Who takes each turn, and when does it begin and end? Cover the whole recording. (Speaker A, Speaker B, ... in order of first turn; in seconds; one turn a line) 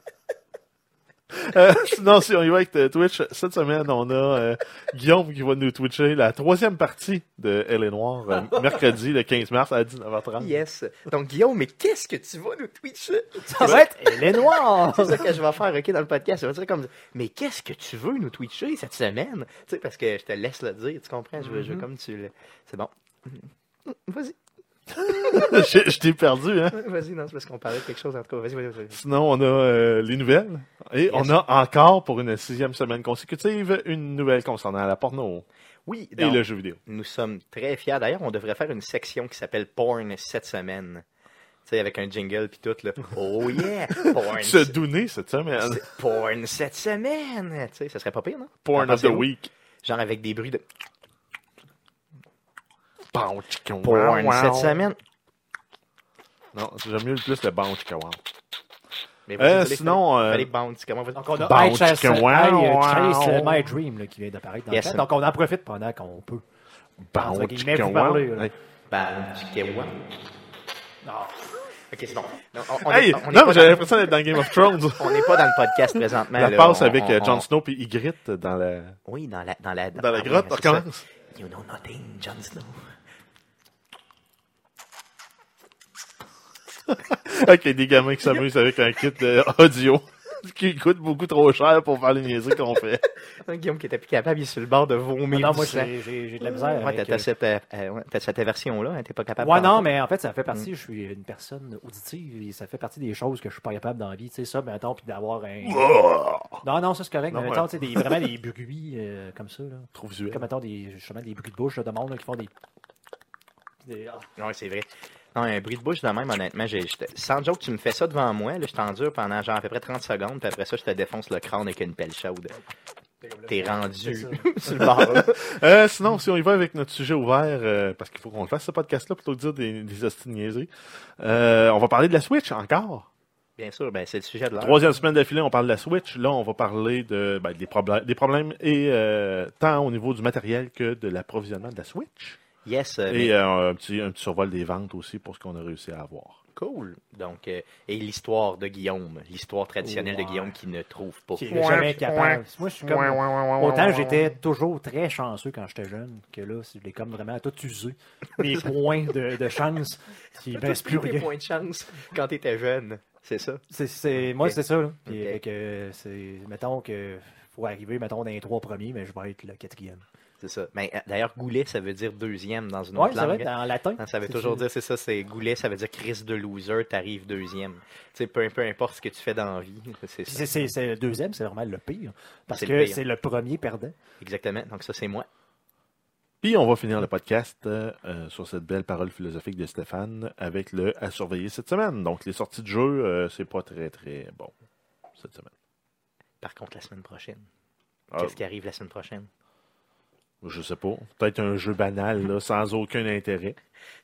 Speaker A: 1.3-10.6
Speaker B: 10.4-24.3
Speaker C: 13.4-15.3
Speaker C: 21.4-21.8
Speaker A: 24.9-26.8
Speaker B: 25.1-25.7
Speaker B: 26.7-29.0
Speaker A: 28.9-35.4
Speaker B: 31.1-31.4
Speaker B: 35.9-41.0
Speaker A: 36.2-36.8
Speaker B: 41.6-44.8
Speaker A: 44.0-45.8
Speaker B: 45.6-49.3
Speaker A: 48.6-49.5
Speaker B: 49.8-50.6
Speaker A: 53.1-54.9
Speaker B: 53.8-55.0
Speaker A: 56.5-58.2
Speaker B: 59.3-61.2
Speaker A: 59.4-60.5
Speaker C: 61.1-66.4
Speaker A: 61.4-63.7
Speaker B: 64.7-65.0
Speaker A: 67.0-68.5
Speaker C: 67.2-68.5
Speaker B: 68.9-69.9
Speaker C: 71.0-71.4
Speaker B: 71.9-74.0
Speaker A: 72.8-75.4
Speaker B: 75.0-77.5
Speaker A: 76.3-79.0
Speaker B: 79.1-82.8
Speaker A: 79.9-81.0
Speaker A: 86.9-93.0
Speaker B: 93.4-99.9
Speaker C: 95.3-97.3
Speaker C: 99.4-105.9
Speaker A: 105.6-106.6
Speaker C: 106.6-112.5
Speaker A: 107.3-108.2
Speaker A: 109.9-110.4
Speaker C: 113.8-114.3
Speaker B: 114.4-122.5
Speaker C: 123.2-125.1
Speaker B: 123.5-125.4
Speaker A: 124.9-133.1
Speaker B: 133.6-134.9
Speaker A: 134.6-142.4
Speaker B: 142.6-143.3
Speaker A: 143.1-146.4
Speaker B: 146.6-151.6
Speaker C: 149.8-150.5
Speaker C: 151.4-161.3
Speaker A: 151.5-154.3
Speaker B: 160.5-163.6
Speaker C: 163.7-170.0
Speaker B: 164.1-164.6
Speaker B: 165.1-165.4
Speaker B: 170.4-180.7
Speaker C: 172.9-174.6
Speaker C: 180.3-183.9
Speaker B: 182.5-183.0
Speaker B: 184.2-185.3
Speaker A: 186.4-194.5
Speaker A: 195.2-195.5
Speaker B: 196.4-197.4
Speaker A: 198.1-198.4
Speaker B: 198.2-199.3
Speaker A: 200.4-203.6